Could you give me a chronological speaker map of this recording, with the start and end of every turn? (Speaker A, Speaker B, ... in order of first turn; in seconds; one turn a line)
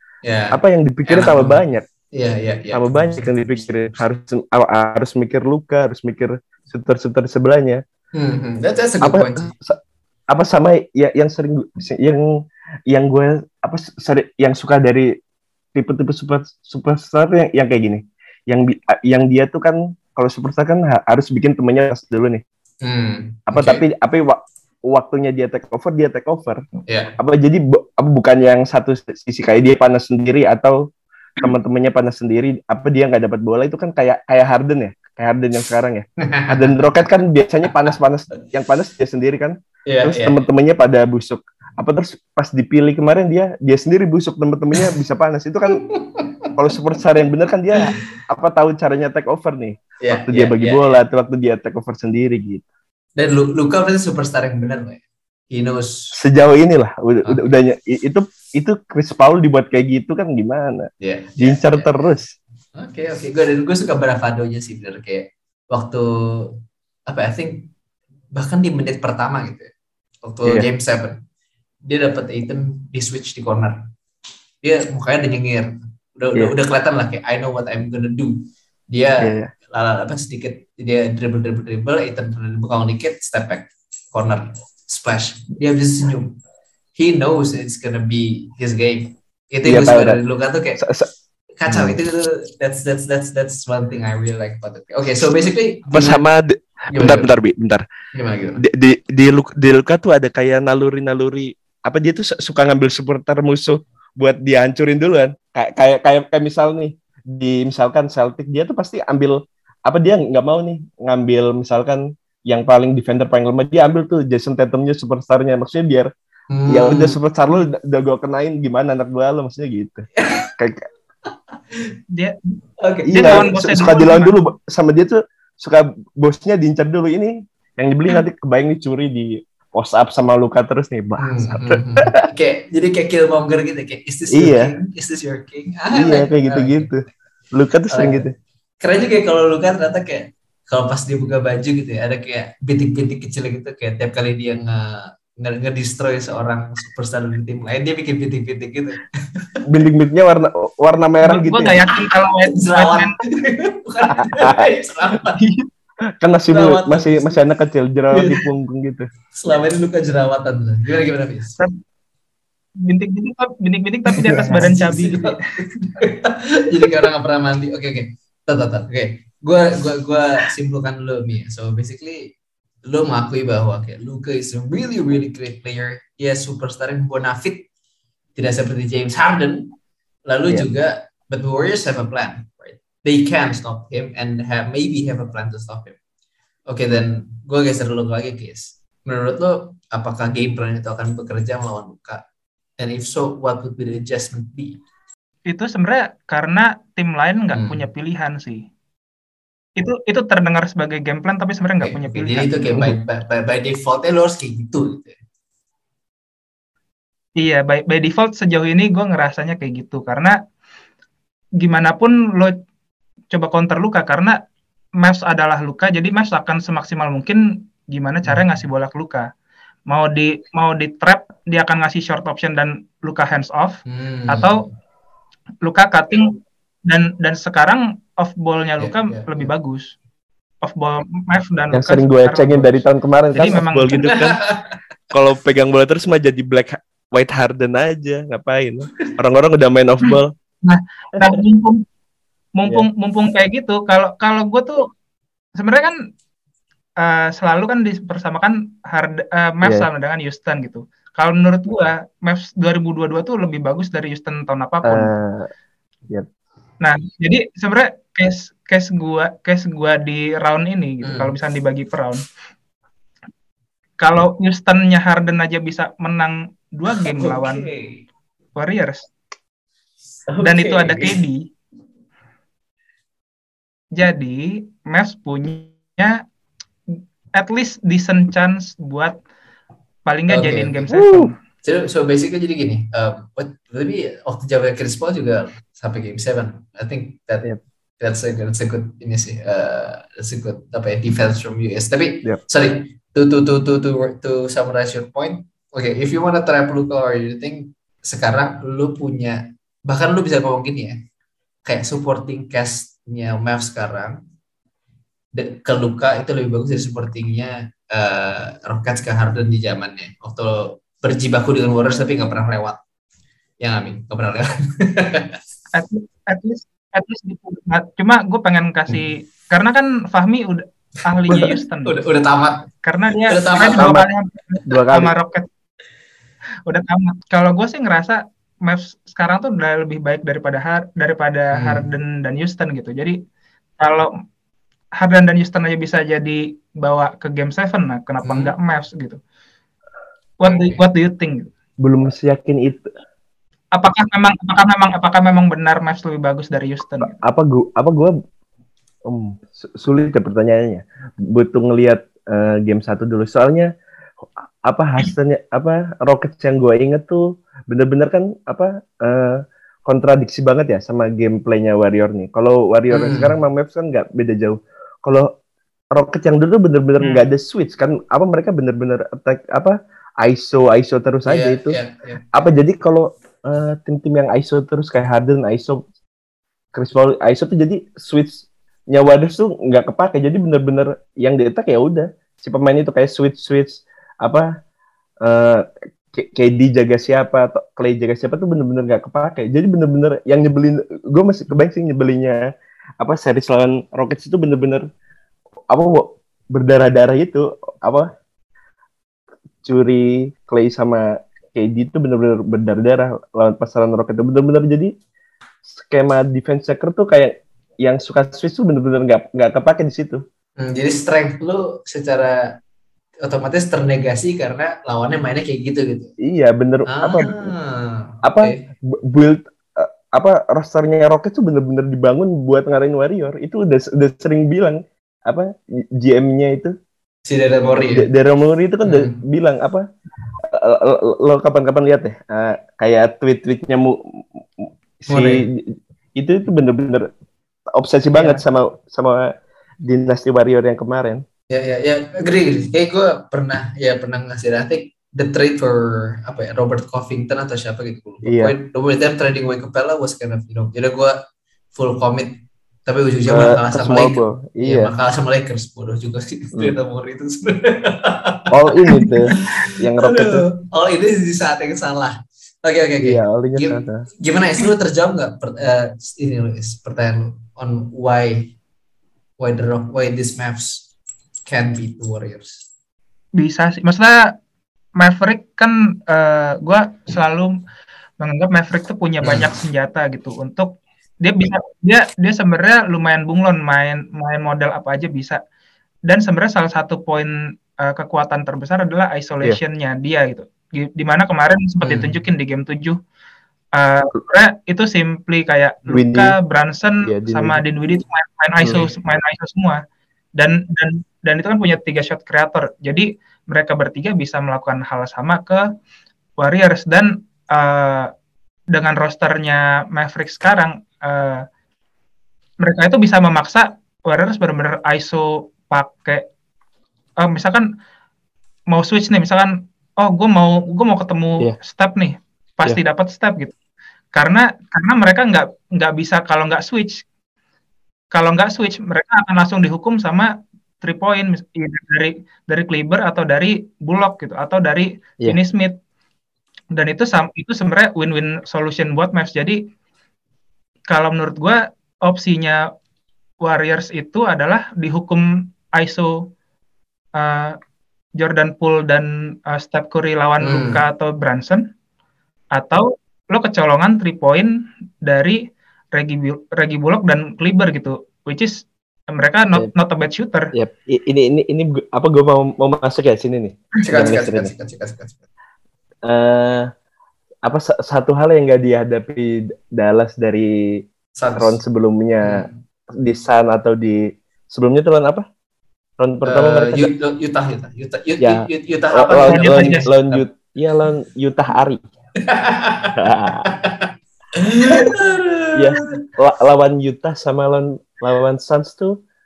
Speaker A: 0.2-2.9
Speaker B: 0.5-1.9
Speaker B: 2.7-7.8
Speaker A: 8.1-9.5
Speaker B: 9.0-9.8
Speaker B: 10.3-12.3
Speaker B: 12.9-15.1
Speaker B: 15.7-22.4
Speaker A: 22.8-23.8
Speaker B: 23.5-26.6
Speaker A: 26.9-27.1
Speaker B: 27.2-30.8
Speaker B: 31.4-45.8
Speaker A: 36.2-36.8
Speaker A: 39.9-40.4
Speaker A: 45.7-46.5
Speaker B: 46.5-52.6
Speaker A: 50.0-51.0
Speaker A: 53.2-56.1
Speaker B: 56.1-62.3
Speaker A: 57.2-57.5
Speaker A: 61.0-62.1
Speaker A: 62.7-67.7
Speaker A: 68.3-69.7
Speaker A: 70.2-71.2
Speaker A: 71.8-73.8
Speaker A: 74.6-86.3
Speaker B: 79.2-79.5
Speaker A: 87.0-90.8
Speaker B: 89.6-90.2
Speaker B: 90.8-91.1
Speaker A: 91.6-96.2
Speaker B: 91.7-92.0
Speaker B: 95.9-97.8
Speaker A: 96.9-97.3
Speaker A: 98.1-98.6
Speaker B: 98.6-116.1
Speaker A: 116.5-117.2
Speaker B: 116.7-120.8
Speaker A: 120.2-120.5
Speaker C: 122.1-122.5
Speaker A: 122.8-123.5
Speaker B: 123.1-132.0
Speaker C: 123.1-124.4
Speaker A: 131.2-136.9
Speaker B: 134.3-134.7
Speaker B: 135.9-138.3
Speaker A: 137.9-138.3
Speaker A: 138.8-149.5
Speaker B: 149.7-151.8
Speaker C: 151.2-153.2
Speaker A: 152.4-155.4
Speaker B: 154.1-154.6
Speaker B: 155.3-155.7
Speaker B: 156.2-159.1
Speaker A: 156.5-157.4
Speaker A: 158.1-158.4
Speaker A: 159.3-161.6
Speaker C: 162.8-165.4
Speaker A: 164.1-172.3
Speaker B: 164.2-164.5
Speaker A: 172.8-177.7
Speaker A: 178.3-179.7
Speaker A: 180.3-186.0
Speaker A: 186.7-192.2
Speaker A: 192.8-194.8
Speaker C: 195.5-198.6
Speaker A: 197.5-197.8
Speaker C: 199.8-202.8
Speaker A: 201.8-205.1
Speaker C: 207.4-210.3
Speaker C: 211.6-212.6
Speaker C: 213.3-214.4
Speaker C: 215.0-219.3
Speaker C: 219.9-224.6
Speaker A: 223.8-224.7
Speaker C: 225.6-229.9
Speaker A: 228.8-229.5
Speaker C: 230.6-234.3
Speaker B: 231.7-234.1
Speaker A: 234.0-234.7
Speaker B: 235.1-240.3
Speaker C: 240.6-241.8
Speaker B: 241.2-241.4
Speaker C: 242.6-244.9
Speaker C: 245.6-245.9
Speaker C: 247.0-255.1
Speaker B: 249.6-249.9
Speaker B: 254.8-255.5
Speaker C: 256.8-262.2
Speaker A: 261.0-261.3
Speaker C: 264.0-267.7
Speaker A: 266.9-268.0
Speaker C: 268.6-269.1
Speaker A: 270.3-271.1
Speaker C: 270.4-271.4
Speaker C: 273.9-276.2
Speaker C: 276.9-279.2
Speaker C: 280.1-281.3
Speaker A: 280.3-280.8
Speaker B: 280.9-281.3
Speaker A: 281.6-287.5
Speaker A: 288.0-301.0
Speaker A: 301.6-304.2
Speaker A: 305.3-312.8
Speaker A: 313.6-315.4
Speaker C: 315.7-321.9
Speaker A: 321.3-322.7
Speaker C: 322.8-325.5
Speaker A: 323.3-324.0
Speaker B: 323.8-324.0
Speaker B: 324.7-325.1
Speaker C: 326.6-333.2
Speaker A: 331.5-331.9
Speaker C: 333.8-334.1
Speaker C: 335.0-339.2
Speaker A: 338.2-338.5
Speaker C: 340.4-341.5
Speaker A: 340.4-340.8
Speaker B: 341.8-342.9
Speaker C: 343.7-347.2
Speaker B: 347.2-348.1
Speaker B: 349.1-353.7
Speaker B: 354.6-365.3
Speaker A: 362.9-363.4
Speaker B: 365.9-371.8
Speaker A: 371.2-372.4
Speaker B: 372.3-375.8
Speaker B: 376.7-384.4
Speaker B: 385.2-392.4
Speaker B: 393.0-394.9
Speaker B: 395.7-398.1
Speaker B: 399.6-404.9
Speaker B: 405.6-410.2
Speaker A: 410.6-412.5
Speaker A: 413.2-416.1
Speaker B: 416.2-417.5
Speaker A: 416.9-418.6
Speaker B: 418.2-426.7
Speaker A: 427.2-428.1
Speaker B: 427.7-429.8
Speaker A: 428.8-429.2
Speaker B: 430.4-437.1
Speaker A: 435.1-435.4
Speaker B: 437.7-441.2
Speaker C: 438.1-438.4
Speaker A: 441.5-451.2
Speaker B: 448.2-448.5
Speaker A: 451.7-468.5
Speaker B: 453.3-454.9
Speaker B: 458.5-460.4
Speaker B: 463.0-464.1
Speaker A: 469.4-470.9
Speaker A: 471.4-472.6
Speaker C: 473.4-474.3
Speaker C: 475.0-477.5
Speaker C: 478.2-485.4
Speaker A: 479.2-479.5
Speaker C: 486.1-493.0
Speaker A: 491.8-492.1
Speaker C: 493.7-499.8
Speaker B: 495.9-496.3
Speaker B: 497.0-497.6
Speaker C: 500.4-505.6
Speaker C: 506.4-508.1
Speaker C: 508.7-511.4
Speaker C: 512.6-516.3
Speaker C: 517.2-517.7
Speaker C: 518.7-523.5
Speaker C: 524.1-527.0
Speaker C: 528.1-530.3
Speaker C: 530.8-535.8
Speaker C: 536.7-539.6
Speaker C: 540.9-542.6
Speaker C: 543.4-546.3
Speaker C: 547.1-547.6
Speaker C: 548.2-551.6
Speaker A: 550.4-550.8
Speaker C: 552.5-555.4
Speaker C: 555.9-560.5
Speaker B: 560.5-564.5
Speaker A: 563.8-565.2
Speaker B: 566.0-566.7
Speaker B: 567.4-570.8
Speaker A: 571.2-571.6
Speaker B: 571.4-575.2
Speaker A: 572.2-572.6
Speaker B: 576.0-576.9
Speaker A: 576.2-580.2
Speaker B: 578.2-581.9
Speaker C: 579.2-579.9
Speaker A: 582.2-586.0
Speaker B: 583.0-583.5
Speaker B: 585.5-589.0